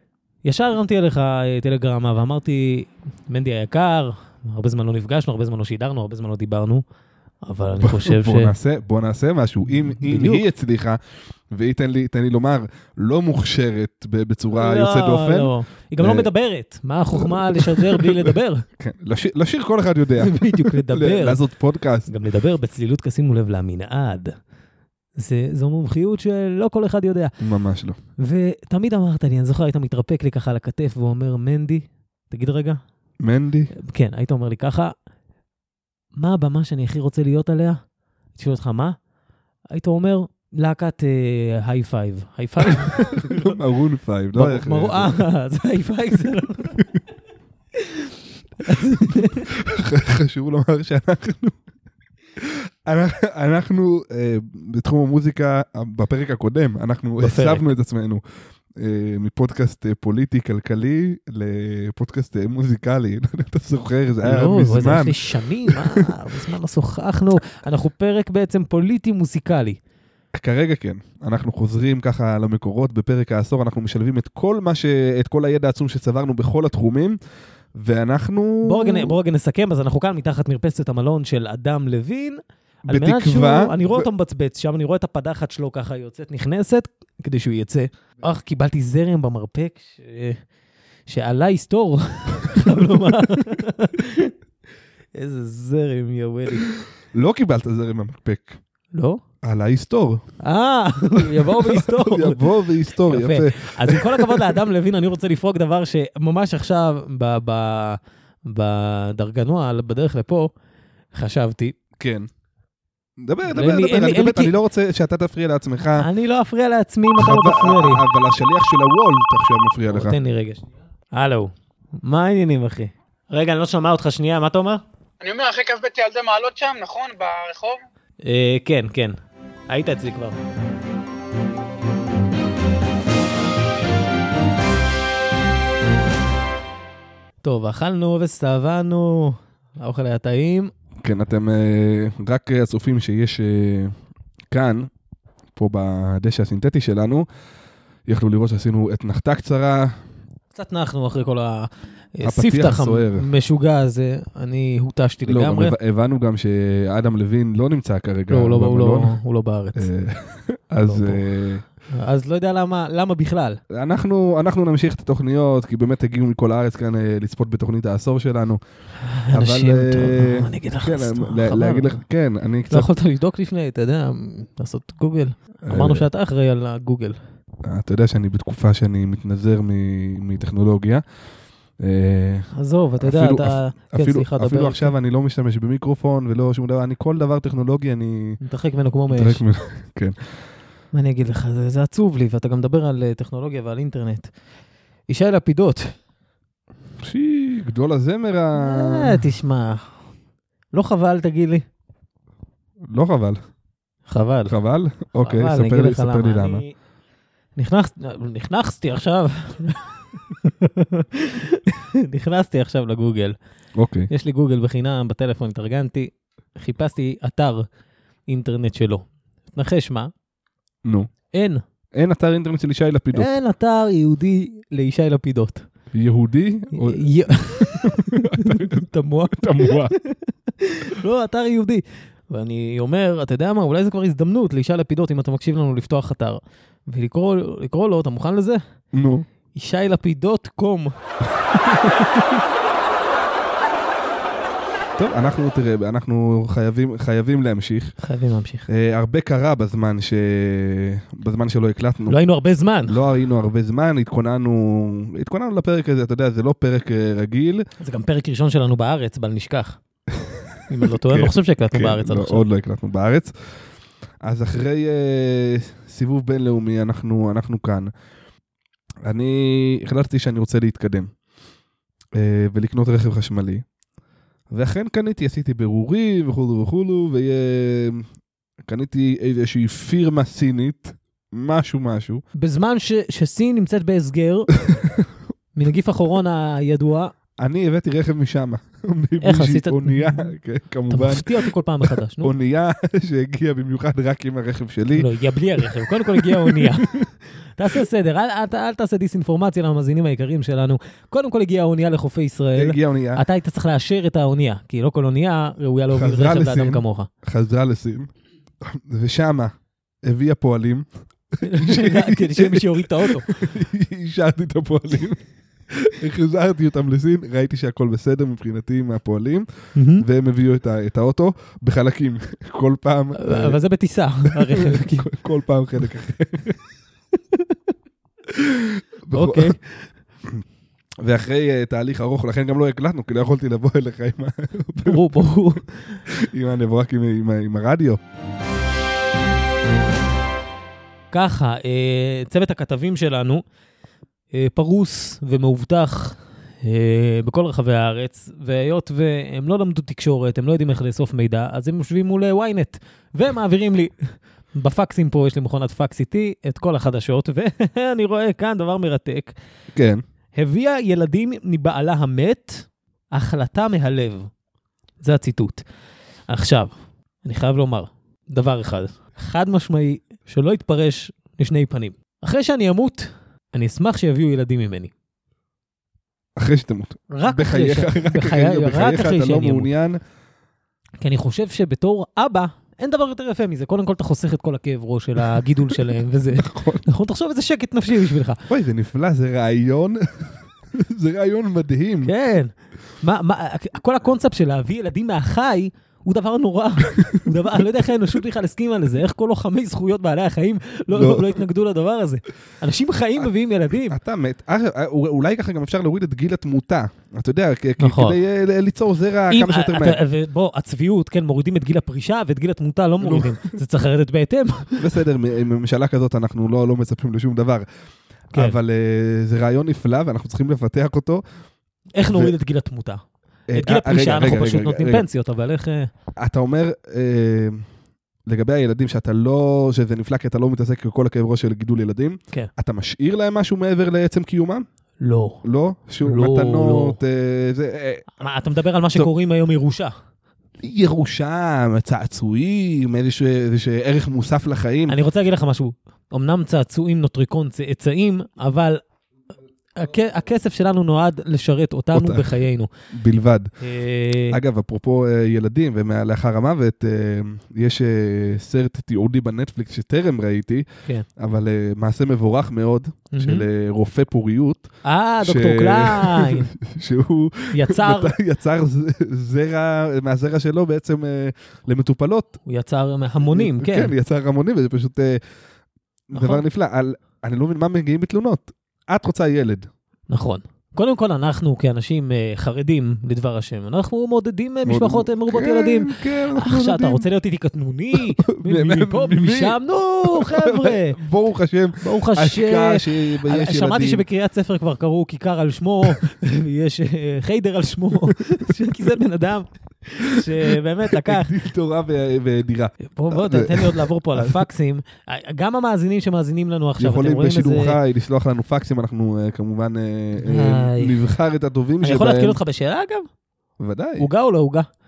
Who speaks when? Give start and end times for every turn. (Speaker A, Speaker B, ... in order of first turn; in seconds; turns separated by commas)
Speaker A: 0.4-6.8, Speaker A: 7.4-8.5, Speaker B: 7.8-16.3, Speaker A: 10.0-10.4, Speaker A: 14.5-18.6, Speaker B: 17.1-22.1, Speaker A: 20.2-21.4, Speaker A: 22.1-24.4, Speaker A: 25.1-27.3, Speaker B: 27.4-28.0, Speaker A: 28.2-32.8, Speaker B: 33.2-33.7, Speaker A: 33.8-34.9, Speaker A: 36.1-37.8, Speaker A: 38.3-39.0, Speaker A: 39.7-43.6, Speaker B: 43.0-45.2, Speaker A: 44.3-46.8, Speaker A: 47.8-48.1, Speaker A: 48.6-49.5, Speaker B: 49.1-51.6, Speaker B: 52.4-58.2, Speaker A: 57.2-57.7, Speaker B: 58.7-66.0, Speaker A: 64.2-69.8, Speaker B: 70.3-77.2, Speaker B: 77.7-79.1, Speaker A: 78.6-90.4, Speaker B: 82.8-84.0, Speaker A: 91.0-94.3, Speaker A: 95.1-96.7, Speaker B: 97.1-98.6, Speaker A: 98.9-99.2, Speaker B: 99.4-100.2, Speaker A: 100.4-102.4, Speaker B: 101.1-104.5, Speaker A: 103.0-110.5, Speaker A: 111.1-111.8, Speaker B: 112.0-112.3, Speaker B: 113.2-116.1, Speaker A: 113.5-114.5, Speaker A: 116.0-118.0, Speaker B: 117.2-120.2, Speaker A: 119.9-124.8, Speaker C: 125.2-127.8, Speaker A: 128.2-129.2, Speaker A: 129.7-130.4, Speaker A: 137.4-140.7, Speaker B: 141.0-143.9, Speaker B: 144.5-144.9, Speaker B: 145.6-147.3, Speaker B: 148.1-149.9, Speaker A: 150.5-155.7, Speaker B: 152.2-153.3, Speaker B: 155.2-159.2, Speaker A: 158.3-159.9, Speaker B: 159.8-161.6, Speaker A: 160.8-161.3, Speaker A: 161.9-163.6, Speaker B: 163.7-168.6, Speaker A: 169.0-172.0, Speaker B: 169.3-172.9, Speaker A: 172.7-177.2, Speaker B: 175.6-176.0, Speaker B: 177.6-181.0, Speaker B: 181.8-188.4, Speaker A: 182.5-184.9, Speaker A: 188.4-189.4, Speaker B: 189.1-190.2, Speaker A: 190.9-194.3, Speaker A: 195.1-195.9, Speaker B: 197.0-199.2, Speaker A: 198.5-199.9, Speaker A: 200.7-201.6, Speaker B: 202.9-203.4, Speaker A: 204.1-204.5, Speaker B: 204.5-206.6, Speaker A: 205.2-206.7, Speaker A: 207.6-213.3, Speaker B: 213.8-214.1, Speaker A: 214.1-217.7, Speaker A: 218.3-220.1, Speaker B: 220.8-221.1, Speaker A: 221.3-221.6, Speaker B: 221.9-223.3, Speaker A: 223.1-225.6, Speaker B: 225.9-229.9, Speaker A: 226.8-238.6, Speaker B: 238.9-239.2, Speaker A: 239.5-240.9, Speaker A: 241.8-242.3, Speaker B: 245.0-247.9, Speaker A: 248.0-248.7, Speaker B: 248.7-252.2, Speaker A: 252.1-253.0, Speaker B: 252.8-257.6, Speaker A: 257.8-259.8, Speaker B: 260.1-263.3, Speaker A: 260.7-262.4, Speaker B: 264.2-267.9, Speaker B: 269.0-271.1, Speaker B: 272.1-273.6, Speaker B: 274.5-278.1, Speaker B: 278.6-282.2, Speaker A: 282.4-284.5, Speaker B: 284.7-285.0, Speaker A: 285.5-287.1, Speaker B: 287.4-291.3, Speaker A: 289.2-290.3, Speaker A: 290.9-292.3, Speaker B: 292.2-297.0, Speaker A: 294.9-296.9, Speaker A: 297.6-307.1, Speaker B: 302.5-303.2, Speaker B: 305.9-308.1, Speaker B: 308.6-309.5, Speaker B: 310.0-310.9, Speaker B: 311.4-319.5, Speaker A: 311.4-313.3, Speaker A: 319.7-320.0, Speaker B: 320.0-323.6, Speaker A: 323.2-325.1, Speaker B: 324.3-326.6, Speaker B: 328.3-329.6, Speaker A: 329.1-329.9, Speaker B: 331.0-335.3, Speaker A: 334.8-336.0, Speaker B: 336.1-338.0, Speaker A: 341.1-343.4, Speaker A: 344.3-359.3, Speaker B: 359.7-360.0, Speaker A: 360.3-364.3, Speaker A: 365.0-365.6, Speaker A: 366.3-374.9, Speaker B: 376.4-380.0, Speaker A: 377.1-379.7, Speaker A: 381.0-388.4, Speaker B: 386.4-386.8, Speaker B: 388.5-392.1, Speaker A: 392.0-404.0, Speaker B: 400.9-401.4, Speaker B: 403.8-410.0, Speaker A: 407.8-408.2, Speaker A: 409.3-414.8, Speaker B: 413.0-413.5, Speaker B: 414.8-417.6, Speaker A: 418.3-418.6, Speaker B: 418.3-421.2, Speaker A: 421.9-423.0, Speaker B: 422.1-422.3, Speaker B: 423.5-425.0, Speaker A: 423.5-425.9, Speaker B: 426.2-427.6, Speaker B: 428.2-434.6, Speaker A: 435.0-435.4, Speaker B: 435.4-438.1, Speaker A: 436.0-437.0, Speaker A: 438.2-439.9, Speaker B: 440.6-445.0, Speaker A: 444.9-448.8, Speaker A: 449.7-452.7, Speaker B: 451.9-452.3, Speaker B: 452.9-453.5, Speaker A: 453.6-454.4, Speaker B: 454.3-460.6, Speaker B: 461.2-464.7, Speaker A: 463.1-463.4, Speaker A: 464.8-466.5, Speaker B: 465.2-472.4, Speaker A: 467.5-468.1, Speaker A: 472.4-473.9, Speaker B: 473.2-475.2, Speaker B: 476.1-479.7, Speaker A: 476.1-476.4, Speaker A: 480.1-491.0, Speaker B: 484.7-487.1, Speaker B: 487.9-494.0, Speaker A: 491.8-501.3, Speaker B: 500.9-504.4, Speaker A: 502.9-507.8, Speaker B: 506.8-512.4, Speaker A: 510.2-511.0, Speaker A: 511.8-513.1, Speaker B: 513.6-514.1, Speaker A: 514.0-514.7